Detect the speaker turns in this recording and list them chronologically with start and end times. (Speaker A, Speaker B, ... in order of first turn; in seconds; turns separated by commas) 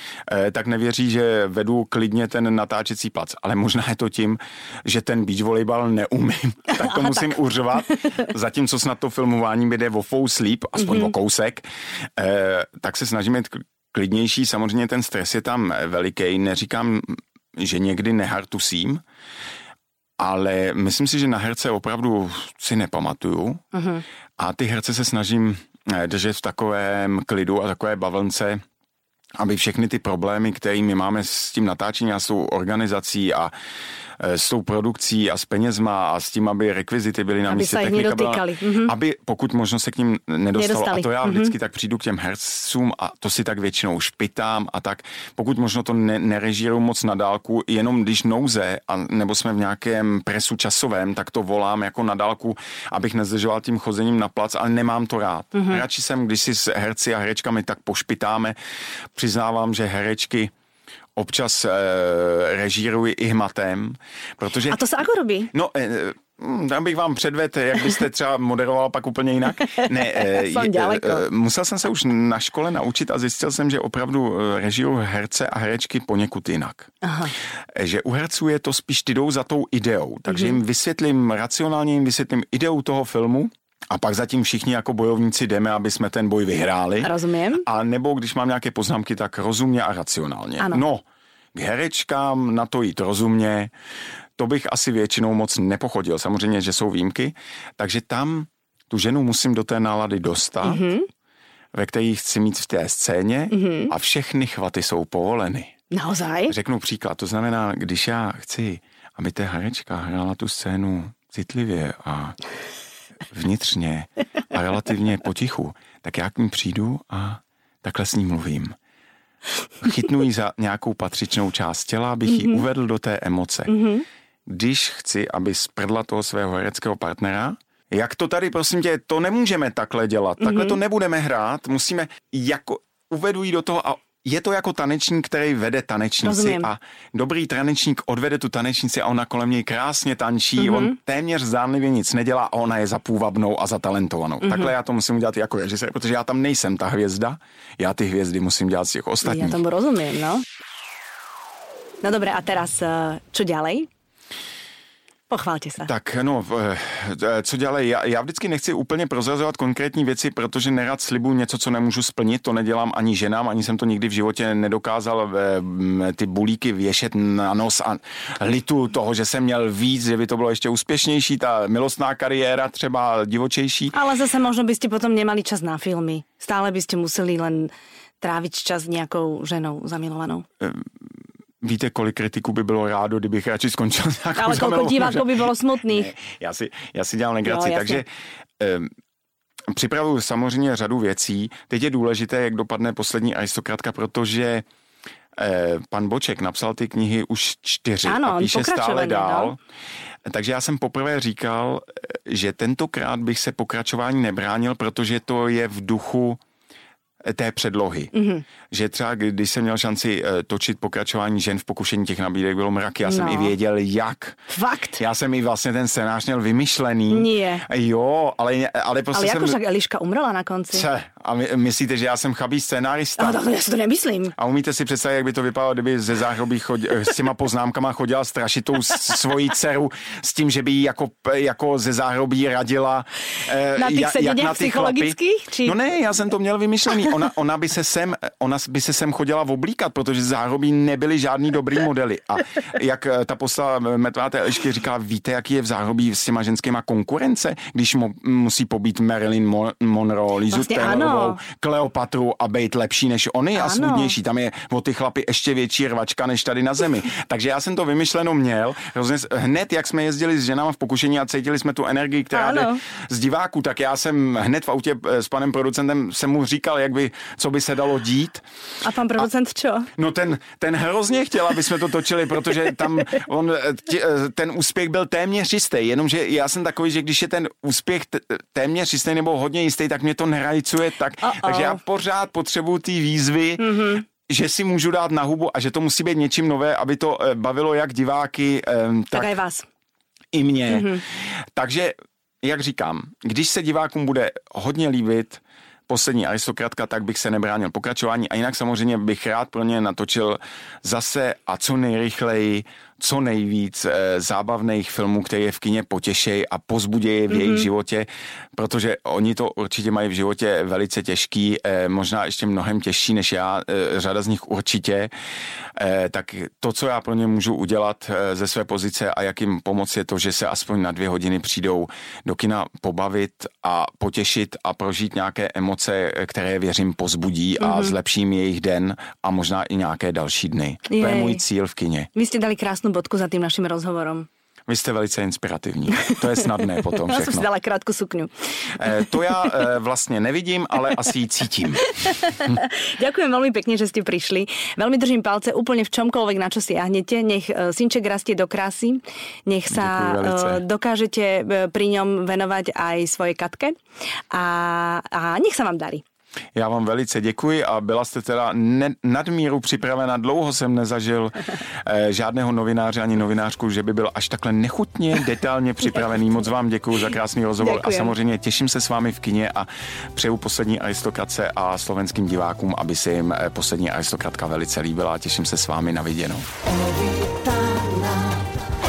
Speaker A: 0.3-19.0, Speaker B: 6.7-7.3, Speaker B: 10.8-11.1, Speaker A: 20.2-23.7, Speaker B: 23.7-24.0, Speaker A: 24.4-28.6, Speaker A: 29.4-33.5, Speaker A: 34.2-58.6, Speaker B: 37.5-38.9, Speaker B: 40.5-41.5, Speaker B: 55.5-55.8, Speaker A: 59.1-60.5, Speaker A: 61.2-64.9, Speaker B: 64.7-65.5, Speaker A: 65.5-76.9, Speaker B: 69.6-71.3, Speaker B: 77.0-77.3, Speaker A: 77.8-91.0, Speaker B: 80.3-80.6, Speaker B: 87.0-87.7, Speaker A: 91.5-93.7, Speaker A: 94.4-100.9, Speaker B: 100.6-101.1, Speaker A: 101.7-105.7, Speaker B: 103.5-103.9, Speaker B: 105.9-106.5, Speaker A: 106.5-112.4, Speaker A: 113.3-118.8, Speaker A: 119.8-123.7, Speaker B: 122.3-122.6, Speaker B: 123.7-124.0, Speaker A: 124.5-149.6, Speaker B: 130.4-130.8, Speaker B: 136.2-136.7, Speaker B: 140.6-141.0, Speaker B: 144.4-144.7, Speaker B: 149.2-150.4, Speaker B: 152.0-153.9, Speaker B: 155.3-155.9, Speaker A: 155.8-173.9, Speaker B: 173.9-180.5, Speaker A: 180.6-180.9, Speaker A: 181.6-188.1, Speaker B: 184.4-186.1, Speaker B: 187.4-188.0, Speaker A: 188.6-188.9, Speaker A: 189.7-194.7, Speaker A: 195.4-199.6, Speaker B: 198.1-199.5, Speaker A: 200.3-206.4, Speaker A: 207.3-208.1, Speaker B: 208.1-208.4, Speaker A: 208.7-214.4, Speaker B: 213.0-213.6, Speaker B: 214.5-215.0, Speaker A: 215.0-219.6, Speaker B: 217.1-217.7, Speaker B: 219.1-220.9, Speaker A: 220.7-223.4, Speaker B: 223.2-224.3, Speaker A: 224.4-268.4, Speaker B: 233.8-235.8, Speaker B: 250.5-251.4, Speaker B: 253.6-254.2, Speaker B: 262.3-262.8, Speaker B: 268.8-269.9, Speaker A: 270.0-289.3, Speaker B: 281.2-281.8, Speaker B: 283.6-284.0, Speaker B: 289.1-289.7, Speaker A: 290.3-315.1, Speaker B: 290.7-291.0, Speaker B: 307.3-307.7, Speaker A: 315.8-332.1, Speaker B: 327.6-327.9, Speaker B: 330.9-331.4, Speaker B: 332.1-334.3, Speaker A: 334.7-337.5, Speaker B: 335.9-338.3, Speaker A: 338.8-342.2, Speaker B: 338.9-339.6, Speaker B: 341.8-353.8, Speaker A: 349.7-350.6, Speaker B: 354.3-356.0, Speaker A: 356.6-376.5, Speaker B: 367.6-368.1, Speaker B: 376.7-378.4